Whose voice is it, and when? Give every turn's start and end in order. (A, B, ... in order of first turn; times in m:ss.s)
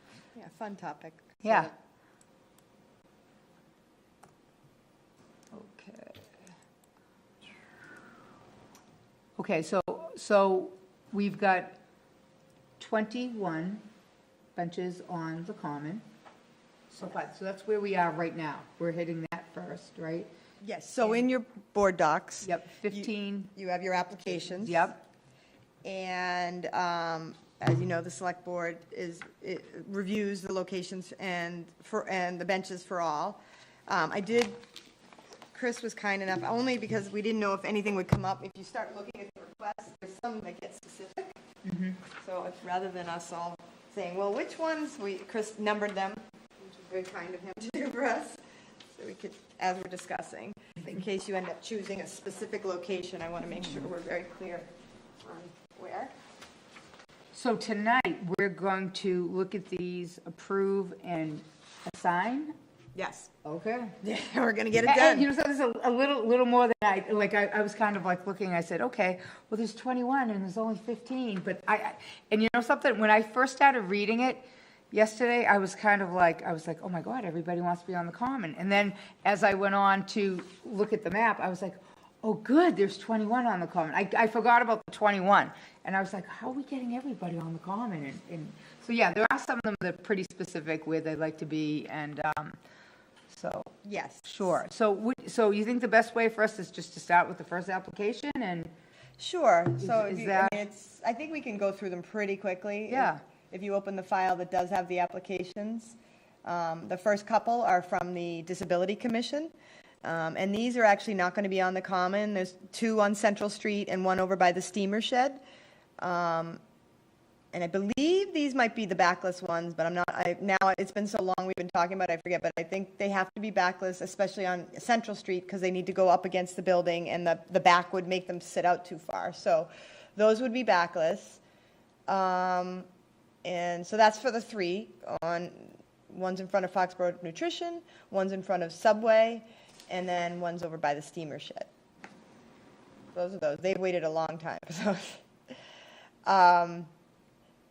0:00.3-0:01.7 A
0:01.4-0:01.7 B
0:05.5-0:06.3 B
0:09.4-0:11.8 B
0:12.8-0:13.8 B
0:14.6-0:16.0 B
0:16.9-0:20.3 B
0:20.6-0:24.9 A
0:22.4-0:23.5 B
0:24.2-0:25.0 B
0:25.8-0:34.6 A
0:35.5-0:41.4 A
0:41.7-0:42.0 B
0:42.0-0:54.7 A
0:55.2-0:56.1 A
0:57.3-1:02.5 B
1:02.9-1:03.3 A
1:03.4-1:04.0 B
1:04.0-1:05.3 A
1:04.8-1:32.6 B
1:33.3-1:38.7 B
1:33.8-1:34.5 A
1:39.2-1:49.5 A
1:39.8-1:40.6 B
1:42.9-1:43.2 B
1:50.0-1:55.4 A
1:56.0-1:56.6 A
1:57.5-2:11.4 A
2:12.1-2:12.9 A
2:13.4-2:21.7 A
2:23.1-2:25.2 A
2:26.2-2:26.9 A